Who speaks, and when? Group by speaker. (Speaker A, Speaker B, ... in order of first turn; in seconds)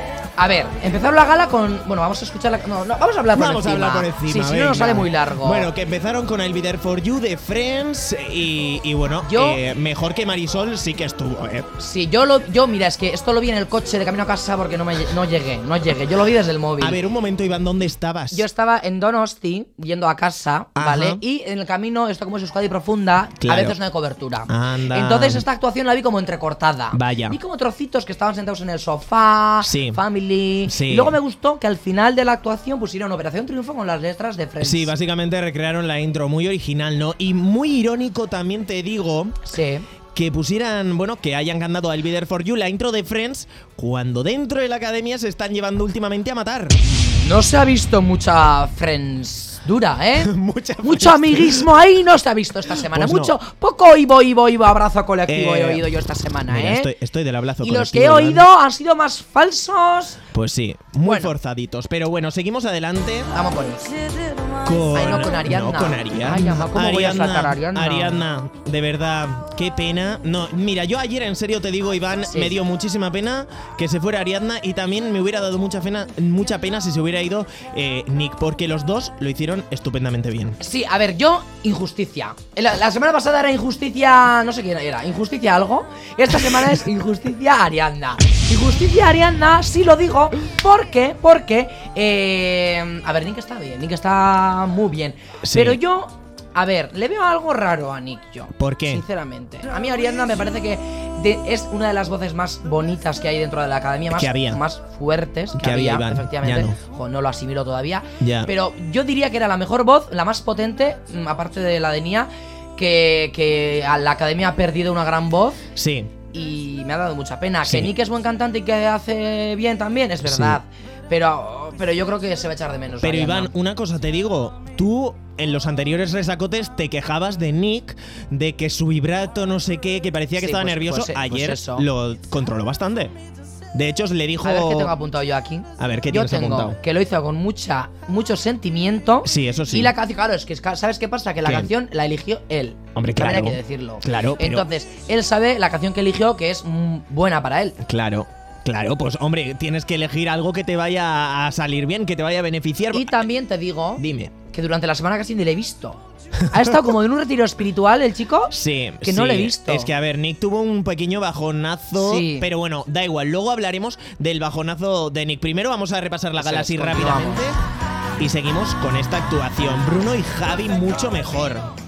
Speaker A: 0.4-5.7, 9.2-9.6, 11.8-17.0, 18.3-34.9, 39.4-39.9, 46.8-56.9, 57.6-60.2, 61.0-61.3, 63.3-63.9, 64.9-68.2, 72.3-72.6, 80.6-115.6, 116.3-123.5, 130.4-131.8, 134.4-147.8, 152.9-159.9, 161.9-162.5, 166.4-167.4
Speaker B: 3.3-11.7, 16.8-18.4, 20.8-21.2, 23.4-23.8, 24.5-25.4, 26.9-27.4, 29.6-30.0, 30.6-31.2, 34.6-39.4, 40.1-46.8, 50.1-51.8, 52.7-53.3, 55.3-55.9, 56.5-58.5, 60.3-63.3, 64.6-80.6, 95.4-95.8, 98.6-99.0, 104.1-104.6, 105.5-106.8, 108.2-108.5, 115.7-116.1, 117.6-117.9, 120.2-120.6, 123.0-133.1, 133.7-134.9, 135.8-136.8, 139.2-139.9, 141.4-141.7, 142.9-144.7, 147.8-153.2, 154.0-154.3, 156.5-156.8, 158.5-167.6, 168.2-171.7